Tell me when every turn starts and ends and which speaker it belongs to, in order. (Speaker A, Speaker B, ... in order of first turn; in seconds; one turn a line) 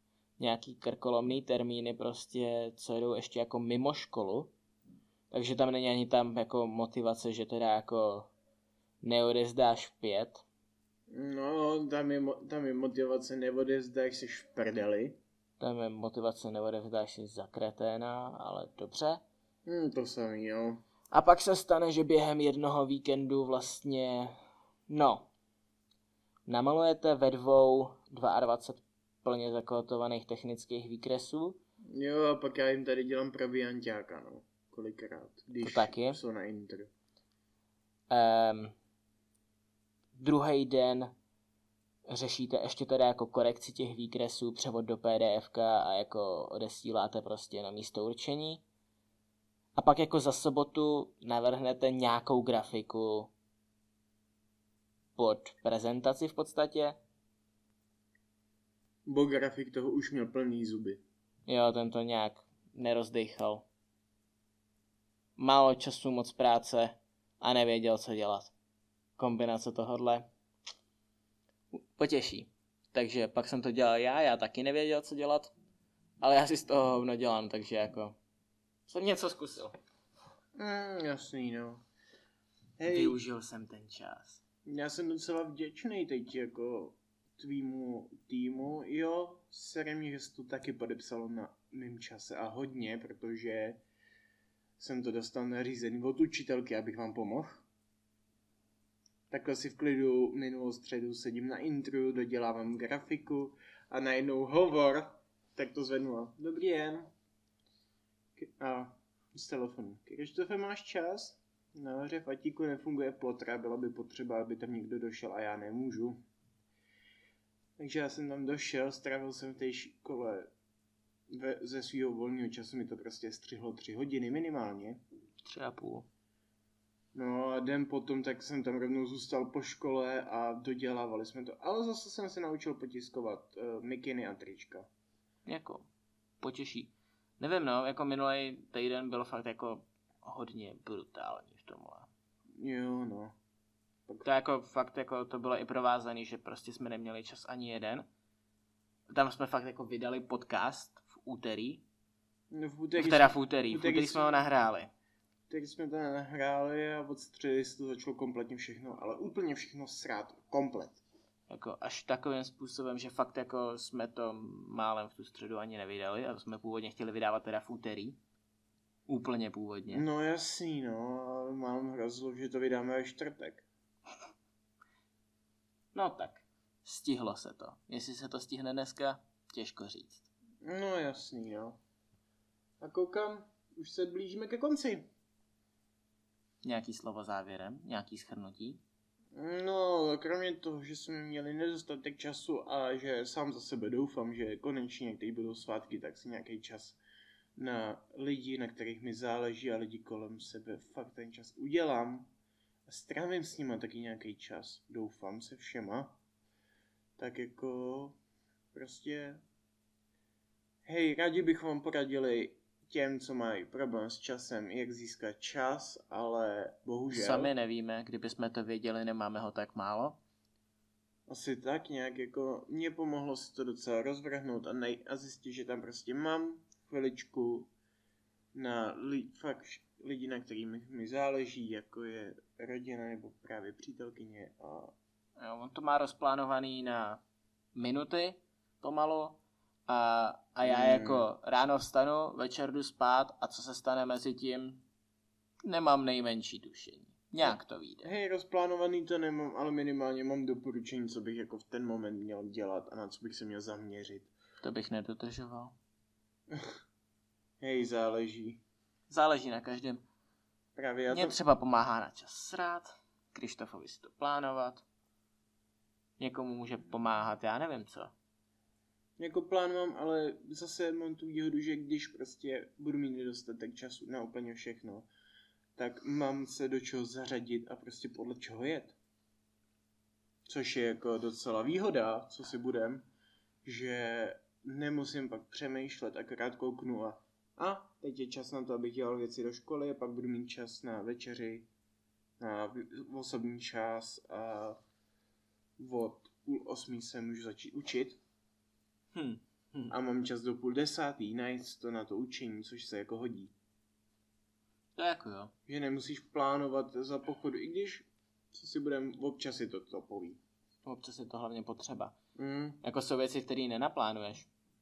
Speaker A: 0.4-4.5
Speaker A: 5.3-8.3
Speaker A: 9.0-10.4
Speaker B: 11.1-15.2
Speaker A: 15.6-19.2
Speaker B: 19.7-20.8
Speaker A: 21.1-25.3
Speaker A: 26.5-31.6
Speaker B: 31.9-36.9
Speaker A: 35.6-36.2
Speaker A: 38.1-38.8
Speaker A: 40.2-41.1
Speaker A: 42.1-48.6
Speaker A: 49.8-53.3
Speaker A: 55.2-57.0
Speaker B: 59.1-61.0
Speaker A: 61.5-63.7
Speaker A: 65.4-68.5
Speaker A: 69.2-70.3
Speaker A: 71.7-75.5
Speaker A: 76.2-78.2
Speaker A: 78.9-79.8
Speaker B: 80.6-81.8
Speaker B: 82.8-83.2
Speaker A: 82.9-84.4
Speaker B: 84.7-93.8
Speaker B: 94.8-97.7
Speaker B: 99.3-107.1
Speaker B: 108.4-116.2
Speaker B: 117.8-120.5
Speaker B: 121.3-125.0
Speaker A: 125.4-126.1
Speaker B: 127.1-134.9
Speaker A: 135.5-135.9
Speaker A: 136.4-142.1
Speaker B: 142.6-143.3
Speaker A: 144.2-148.1
Speaker A: 149.1-151.8
Speaker B: 152.5-154.5
Speaker A: 153.0-154.9
Speaker B: 155.5-161.0
Speaker A: 161.5-168.2
Speaker A: 169.1-170.1
Speaker B: 169.9-173.7
Speaker A: 175.9-180.2
Speaker B: 180.6-181.8
Speaker B: 182.8-185.1
Speaker A: 186.6-188.8
Speaker B: 189.3-197.0
Speaker B: 197.6-202.3
Speaker B: 202.9-206.2
Speaker B: 207.2-208.2
Speaker B: 208.7-209.4
Speaker B: 210.8-217.5
Speaker A: 217.1-220.2
Speaker B: 221.3-227.7
Speaker B: 228.5-234.9
Speaker A: 235.4-237.2
Speaker A: 237.8-244.8
Speaker B: 240.7-241.3
Speaker A: 245.6-248.1
Speaker B: 247.4-254.3
Speaker A: 254.6-255.8
Speaker B: 257.6-258.6
Speaker A: 259.1-260.1
Speaker B: 260.8-261.4
Speaker A: 261.1-264.8
Speaker A: 266.2-268.1
Speaker B: 269.2-275.1
Speaker B: 275.8-279.0
Speaker B: 280.5-283.1
Speaker B: 283.6-291.7
Speaker B: 292.4-294.8
Speaker B: 295.8-298.2
Speaker A: 299.1-299.9
Speaker B: 299.9-303.5
Speaker A: 304.9-305.5
Speaker B: 305.7-310.4
Speaker A: 310.8-312.2
Speaker B: 312.4-312.8
Speaker A: 312.8-314.5